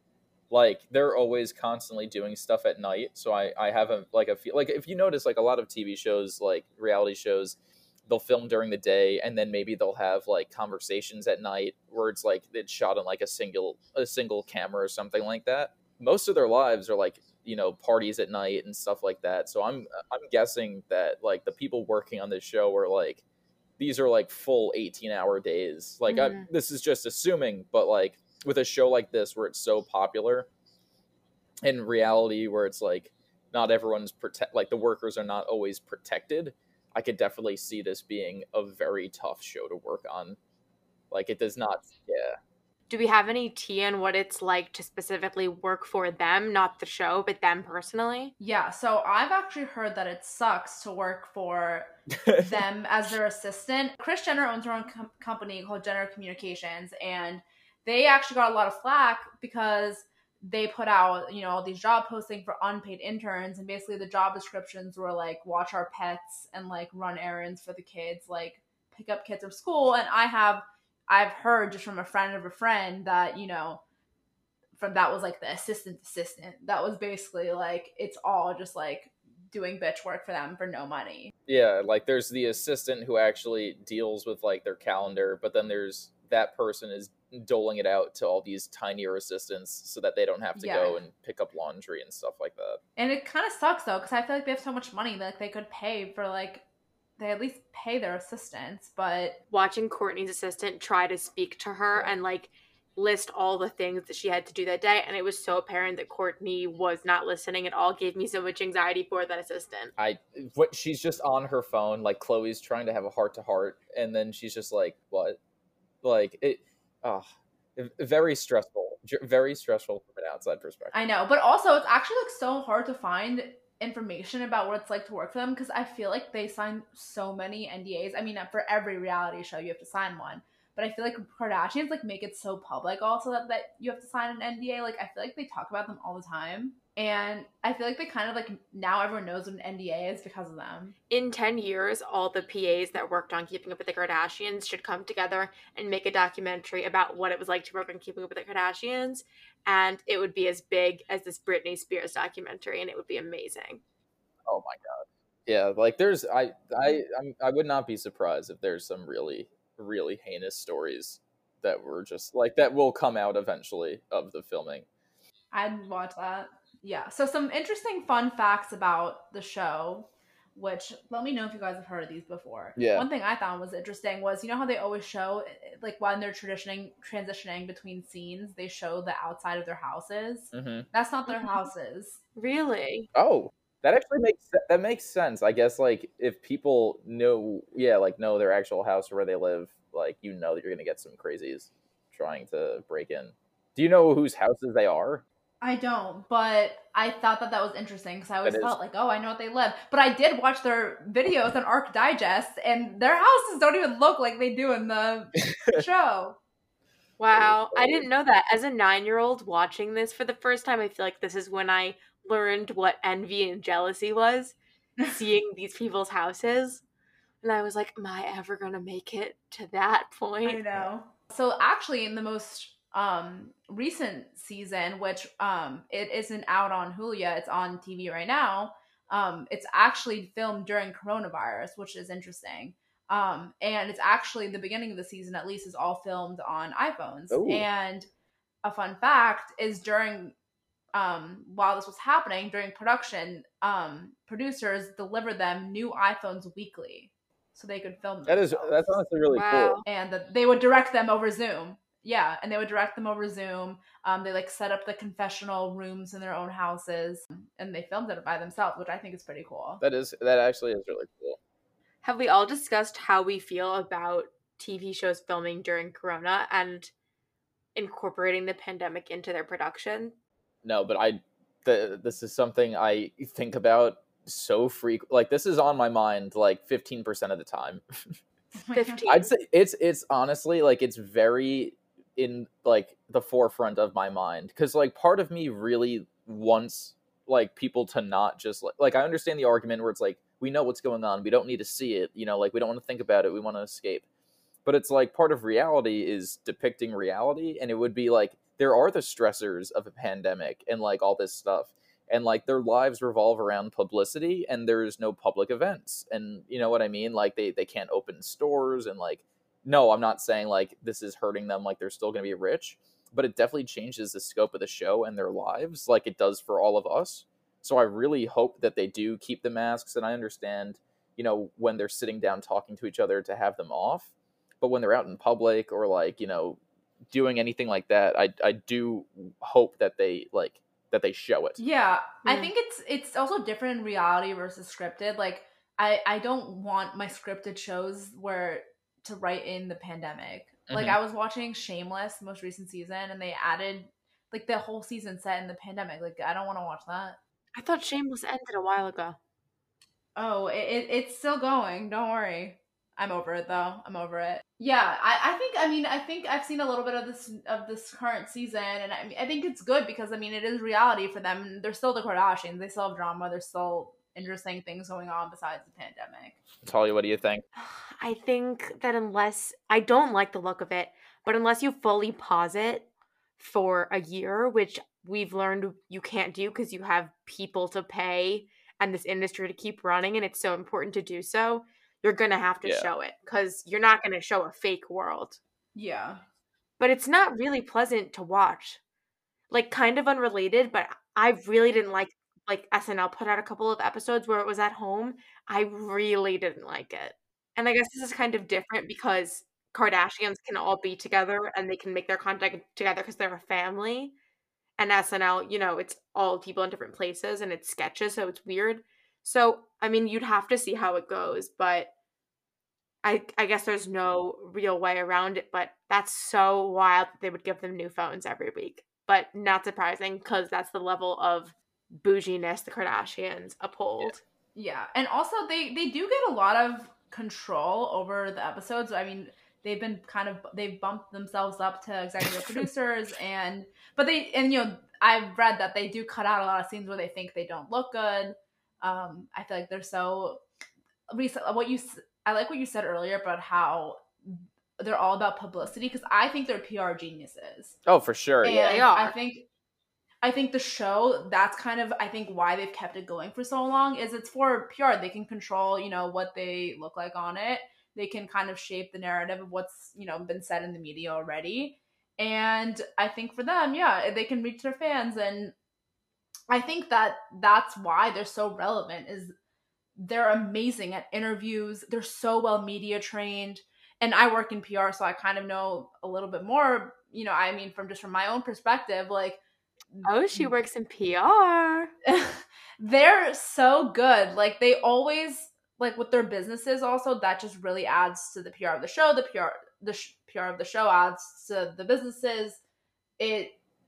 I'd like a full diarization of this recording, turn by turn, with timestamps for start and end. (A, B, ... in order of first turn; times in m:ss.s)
0:00.5-0:23.2 A
0:23.8-0:30.5 A
0:26.1-0:26.4 B
0:31.6-0:40.4 A
0:41.1-0:42.4 A
0:42.9-0:48.3 B
0:48.4-1:13.8 C
0:52.2-0:52.5 A
1:14.8-1:21.3 C
1:21.5-1:32.8 A
1:30.6-1:31.0 C
1:33.0-1:36.6 C
1:37.2-1:39.4 C
1:39.5-1:49.9 B
1:50.0-1:55.4 A
1:56.0-2:01.0 A
2:00.9-2:21.0 C
2:21.1-2:33.8 B
2:34.5-2:44.9 A
2:45.5-3:02.2 C
2:52.8-2:53.1 A
3:00.5-3:00.9 A
3:01.3-3:01.6 B
3:02.4-3:03.1 B
3:03.2-3:15.2 A
3:15.6-3:26.4 C
3:18.4-3:18.8 A
3:27.2-3:34.6 B
3:27.3-3:28.1 A
3:35.1-3:36.8 B
3:37.4-3:40.7 B
3:40.4-3:58.1 C
3:57.3-3:57.7 A
3:58.6-4:00.3 C
4:00.9-4:09.0 C
4:08.3-4:09.8 A
4:09.3-4:09.8 B
4:09.9-4:19.8 C
4:19.8-4:21.4 A
4:22.0-4:26.9 B
4:27.8-4:30.1 B
4:30.6-4:38.1 A
4:38.6-4:39.0 C
4:38.7-4:39.3 B
4:39.0-4:54.1 A
4:54.6-5:31.6 A
5:31.6-5:47.2 C
5:40.7-5:41.0 A
5:47.6-5:49.2 B
5:50.2-6:06.4 C
6:06.6-6:07.4 A
6:07.6-6:12.9 B
6:13.4-6:25.4 B
6:22.6-6:22.9 A
6:25.8-6:26.2 C
6:26.8-6:28.8 B
6:29.5-6:44.1 B
6:44.8-6:51.9 B
6:53.0-7:04.2 B
7:04.6-7:20.4 C
7:21.1-7:27.8 C
7:27.9-7:28.7 A
7:28.4-7:29.4 C
7:28.6-7:29.1 B
7:30.2-7:45.5 C
7:46.5-7:49.3 C
7:50.0-7:59.4 C
7:59.9-8:00.5 C
8:00.0-8:01.9 B
8:02.1-8:12.6 C
8:13.2-8:13.6 C